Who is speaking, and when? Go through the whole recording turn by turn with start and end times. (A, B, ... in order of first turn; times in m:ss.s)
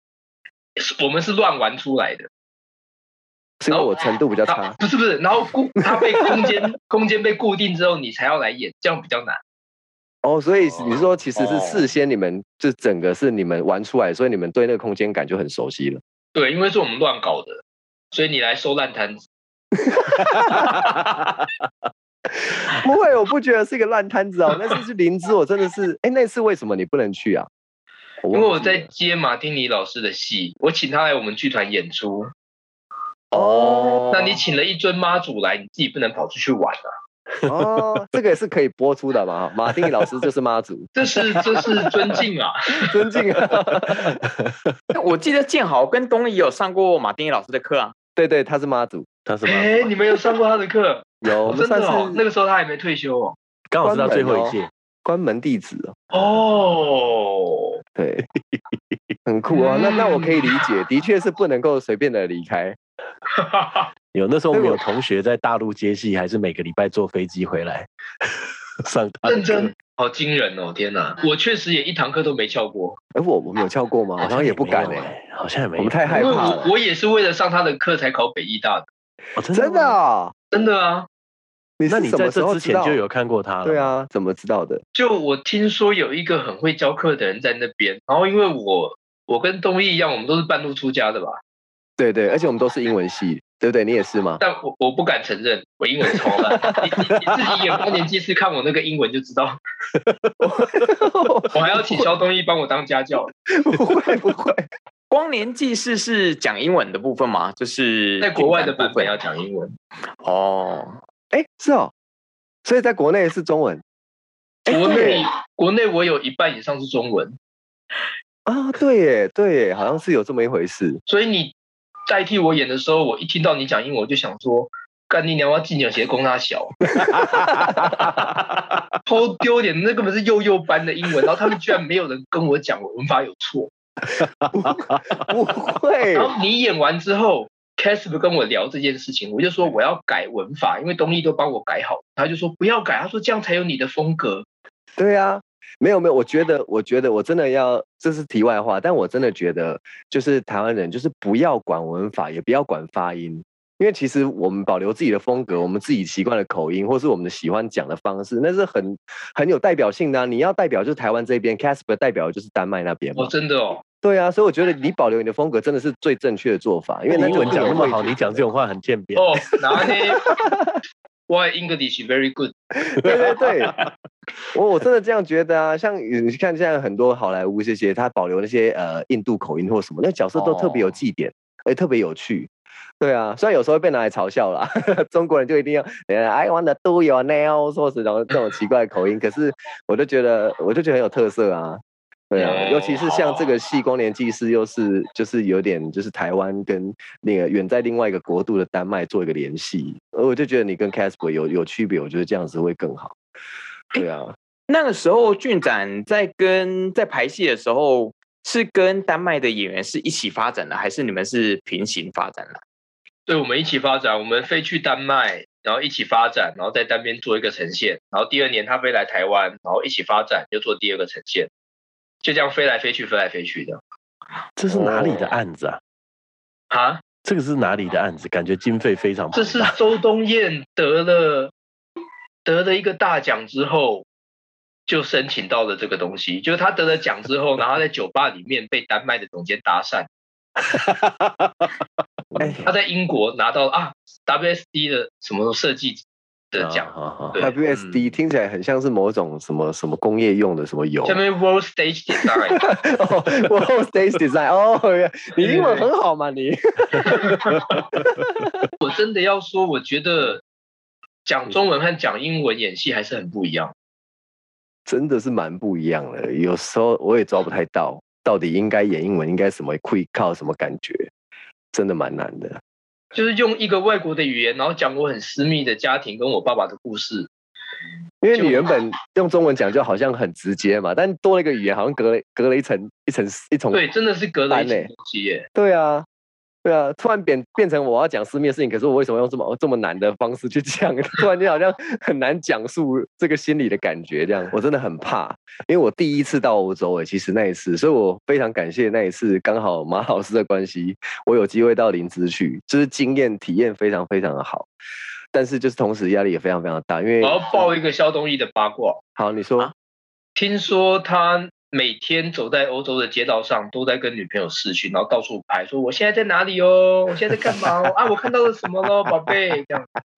0:00.8-0:02.3 A
0:03.6-0:04.8 B
0:04.5-0:09.4 A
0:05.9-0:06.5 B
0:10.2-0:16.0 B
0:11.4-0:11.8 C
0:16.4-0:19.2 A
0:19.9-0:20.7 B
0:22.7-0:27.5 B
0:28.2-0:28.9 B
0:28.3-0:32.3 A
0:33.3-0:34.3 C
0:33.3-0:34.2 B
0:34.1-0:36.9 A
0:37.4-0:41.0 B
0:41.0-0:42.9 A
0:42.8-0:44.2 B
0:43.5-0:44.7 D
0:44.9-0:47.9 C
0:48.2-0:49.1 B
0:49.2-0:49.9 D
0:49.4-0:53.4 A
0:51.2-0:52.2 B
0:53.7-0:54.7 D
0:53.8-0:56.0 B
0:56.1-0:57.8 A
0:58.0-0:58.3 B
0:59.2-1:02.8 B
0:59.5-1:00.6 A
1:03.4-1:03.9 A
1:04.1-1:08.3 D
1:04.5-1:04.8 B
1:08.8-1:09.7 D
1:09.3-1:13.0 A
1:13.1-1:15.1 B
1:14.2-1:16.5 D
1:15.8-1:16.7 B
1:16.1-1:18.9 A
1:19.4-1:20.0 D
1:19.5-1:20.3 B
1:20.5-1:21.1 A
1:21.8-1:23.0 B
1:21.9-1:23.9 D
1:23.6-1:24.8 B
1:24.9-1:31.4 A
1:32.0-1:34.4 B
1:34.4-1:39.6 A
1:36.6-1:37.2 B
1:40.4-1:42.1 B
1:41.5-1:43.3 A
1:43.5-1:44.6 B
1:45.1-1:49.2 C
1:48.2-1:49.8 A
1:50.2-1:51.0 C
1:51.3-1:51.9 B
1:52.6-1:53.8 B
1:54.6-1:55.2 B
1:54.7-1:57.4 A
1:58.5-2:01.0 B
2:01.1-2:01.5 A
2:02.1-2:06.8 A
2:07.0-2:08.0 B
2:07.2-2:07.9 D
2:09.0-2:13.7 A
2:14.2-2:15.0 D
2:14.5-2:16.3 B
2:16.1-2:24.5 A
2:25.0-2:43.3 B
2:43.2-2:43.8 A
2:44.0-2:48.4 B
2:47.1-2:49.9 D
2:49.2-2:50.3 A
2:51.3-2:52.5 A
2:52.9-2:53.8 B
2:53.0-2:53.9 D
2:54.5-3:23.1 B
3:00.4-3:00.9 C
3:12.4-3:13.5 A
3:23.9-3:24.4 B
3:24.7-3:32.6 C
3:33.3-3:41.5 A
3:42.2-3:43.8 A
3:44.6-3:45.8 D
3:44.7-3:45.3 A
3:46.7-3:47.0 A
3:47.2-3:49.8 D
3:49.3-3:51.5 A
3:52.4-3:54.0 A
3:54.9-4:00.1 A
4:00.7-4:01.7 D
4:02.3-4:02.7 D
4:02.4-4:02.6 B
4:02.6-4:07.5 A
4:06.6-4:07.4 D
4:07.4-4:11.2 B
4:07.7-4:08.0 C
4:11.0-4:12.6 A
4:12.6-4:18.7 B
4:15.4-4:15.9 A
4:17.1-4:17.8 A
4:18.8-4:20.4 A
4:21.2-4:23.7 A
4:24.9-4:31.1 B
4:31.7-4:32.6 B
4:33.1-4:37.3 A
4:38.2-4:43.8 B
4:38.3-4:38.7 A
4:43.7-4:45.5 A
4:44.5-4:44.9 B
4:45.5-4:46.0 B
4:46.6-5:04.7 B
5:05.3-5:07.7 B
5:07.2-5:09.0 A
5:09.2-5:09.7 B
5:10.4-5:19.9 A